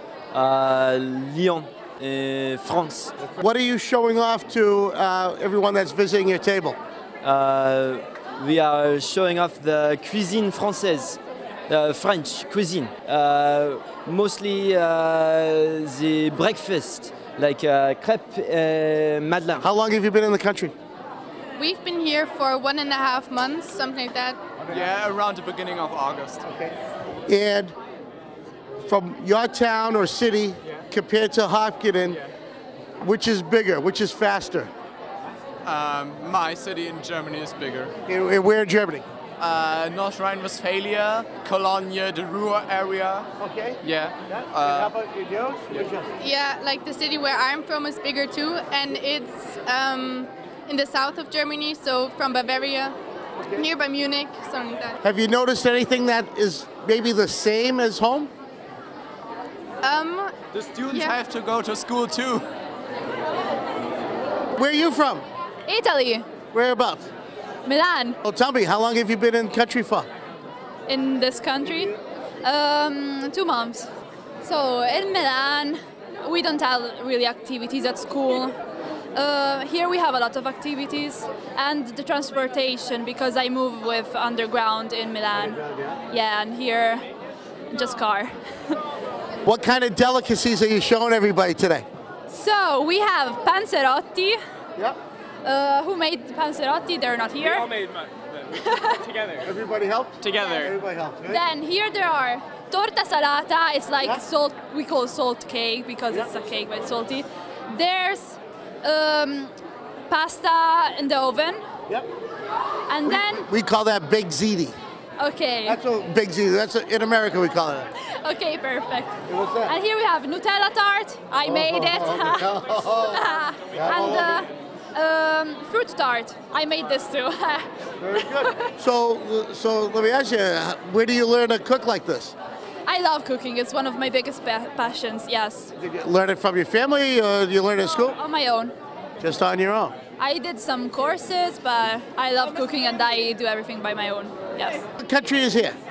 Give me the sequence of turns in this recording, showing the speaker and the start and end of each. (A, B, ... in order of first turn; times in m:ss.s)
0:00.3-0:03.1 A
0:03.4-0:06.8 B
0:07.2-0:11.2 A
0:11.7-0:19.6 A
0:19.6-0:20.8 B
0:21.6-0:24.4 C
0:24.7-0:26.5 D
0:27.3-0:27.8 B
0:28.8-0:32.2 B
0:33.0-0:34.7 B
0:35.6-0:38.0 D
0:38.1-0:39.1 B
0:39.4-0:43.3 D
0:43.4-0:46.1 B
0:43.8-0:44.9 D
0:46.2-0:53.0 C
0:53.6-0:55.0 C
0:55.0-0:58.3 B
0:59.8-1:00.3 C
1:00.6-1:02.5 D
1:00.9-1:01.2 C
1:04.6-1:05.2 B
1:05.7-1:06.3 E
1:06.5-1:07.1 B
1:07.6-1:08.2 E
1:08.2-1:10.1 B
1:10.9-1:13.9 E
1:14.4-1:18.6 E
1:19.2-1:27.0 E
1:25.5-1:26.0 B
1:27.7-1:28.8 E
1:29.4-1:31.9 B
1:32.3-1:34.4 E
1:35.4-1:37.7 E
1:37.6-1:38.4 D
1:38.5-1:39.0 E
1:39.4-1:41.4 B
1:40.2-1:40.7 D
1:41.3-1:49.5 E
1:50.1-1:51.6 E
1:52.9-1:53.4 E
1:53.1-1:54.8 B
1:55.2-1:55.8 E
1:55.7-1:57.9 B
1:58.2-1:59.1 E
1:59.3-1:59.8 B
1:59.7-2:08.7 E
2:01.4-2:04.4 B
2:08.0-2:12.4 B
2:12.9-2:15.7 E
2:15.8-2:18.2 B
2:18.0-2:18.7 E
2:19.2-2:20.0 B
2:20.2-2:24.8 E
2:25.0-2:25.8 B